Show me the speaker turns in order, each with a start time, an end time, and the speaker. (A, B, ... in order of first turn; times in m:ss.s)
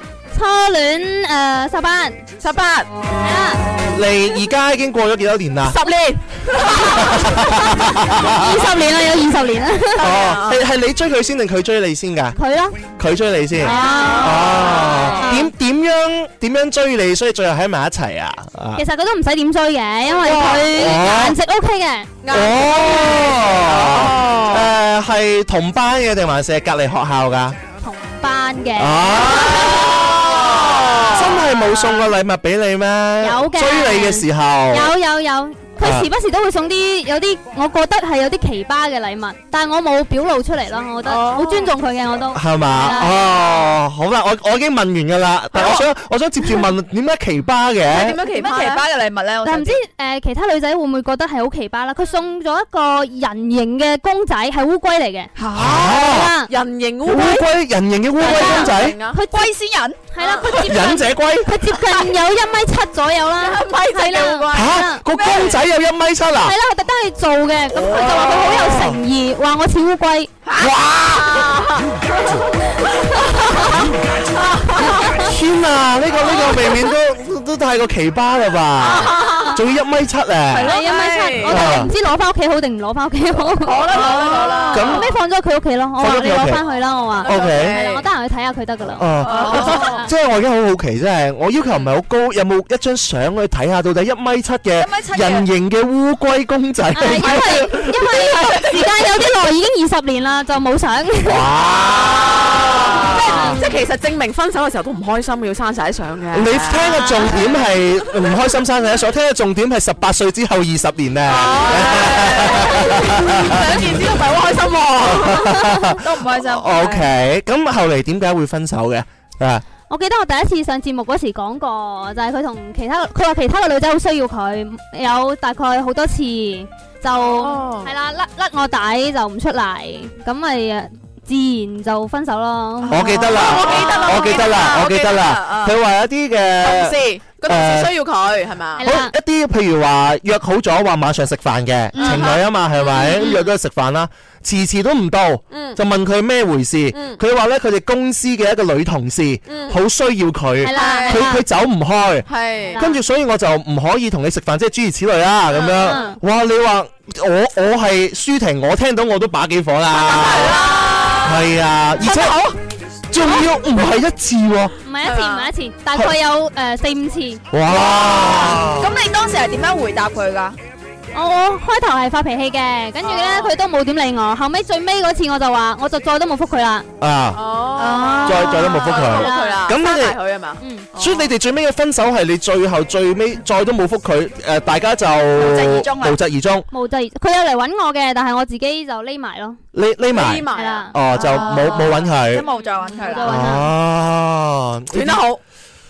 0:00.3-0:02.2 A
0:02.4-0:02.9 B
0:03.2-0:03.6 A
0:03.8-0:05.8 C
0:05.7-0:08.3 B
0:06.7-0:10.1 A
0:06.8-0:08.7 C
0:09.9-0:10.6 B
0:10.0-0:12.4 C
0:12.4-0:12.9 A
0:13.0-0:18.8 C
0:13.6-0:15.5 A
0:13.6-0:15.4 B
0:18.7-0:22.1 A
0:20.2-0:21.4 C
0:22.2-0:24.7 B
0:22.3-0:27.6 C
0:27.8-0:30.0 A
0:28.8-0:34.9 C
0:29.6-0:31.2 B
0:33.2-0:43.2 A
0:35.8-0:36.1 C
0:41.0-0:41.7 B
0:42.3-0:48.2 C
0:47.9-0:48.8 B
0:48.2-0:49.8 D
0:49.4-0:55.3 A
0:55.4-0:56.0 D
0:55.5-0:56.3 C
0:55.9-0:56.5 A
0:56.5-0:57.5 B
0:57.0-0:59.0 C
0:58.2-0:59.2 B
0:58.2-0:59.5 A
0:59.3-1:00.0 D
1:00.1-1:05.0 A
1:00.2-1:00.6 B
1:00.6-1:01.6 C
1:03.4-1:04.7 B
1:04.5-1:06.5 C
1:05.1-1:05.6 D
1:06.4-1:10.3 A
1:07.7-1:09.0 C
1:10.4-1:10.7 D
1:10.6-1:11.5 C
1:10.6-1:11.9 B
1:13.0-1:13.8 B
1:14.3-1:15.2 B
1:15.0-1:15.2 A
1:15.2-1:20.8 C
1:18.8-1:19.6 B
1:20.5-1:21.6 B
1:20.6-1:24.0 A
1:21.5-1:21.9 C
1:23.6-1:25.0 B
1:23.9-1:24.9 D
1:24.7-1:25.1 C
1:24.8-1:30.1 A
1:26.0-1:26.6 C
1:27.2-1:28.0 B
1:27.2-1:27.8 C
1:29.0-1:38.6 C
1:29.2-1:29.9 B
1:29.3-1:30.0 D
1:34.8-1:35.5 D
1:36.9-1:41.5 A
1:41.2-1:43.6 C
1:42.9-1:47.6 B
1:46.3-1:54.2 C
1:51.2-1:55.6 B
1:55.0-1:59.6 C
1:56.0-1:57.1 D
1:59.9-2:13.0 A
2:07.4-2:07.9 B
2:12.8-2:14.5 D
2:12.9-2:17.9 C
2:13.1-2:15.7 B
2:16.6-2:18.8 B
2:18.8-2:19.1 A
2:18.8-2:42.4 C
2:21.9-2:22.4 D
2:22.0-2:23.5 B
2:25.5-2:25.8 B
2:26.9-2:27.2 B
2:29.5-2:29.8 B
2:30.6-2:31.4 A
2:30.7-2:31.3 B
2:32.3-2:32.8 B
2:32.7-2:33.0 A
2:35.5-2:36.0 B
2:35.8-2:36.2 A
2:39.9-2:41.5 B
2:42.0-2:42.6 B
2:43.1-2:44.7 C
2:44.8-2:47.4 A
2:45.0-2:45.5 B
2:47.5-2:48.9 C
2:47.7-2:50.6 D
2:51.1-2:56.8 A
2:53.0-2:53.5 B
2:57.0-2:57.4 C
2:57.3-3:01.3 B
2:57.8-2:59.0 D
2:58.2-3:00.2 C
2:59.1-2:59.6 A
3:00.6-3:00.9 A
3:01.0-3:06.7 C
3:05.4-3:06.2 D
3:06.7-3:09.6 A
3:09.7-3:12.5 C
3:10.1-3:12.0 B
3:10.5-3:11.0 A
3:11.2-3:13.5 D
3:12.9-3:13.7 A
3:13.2-3:15.2 C
3:14.9-3:15.4 B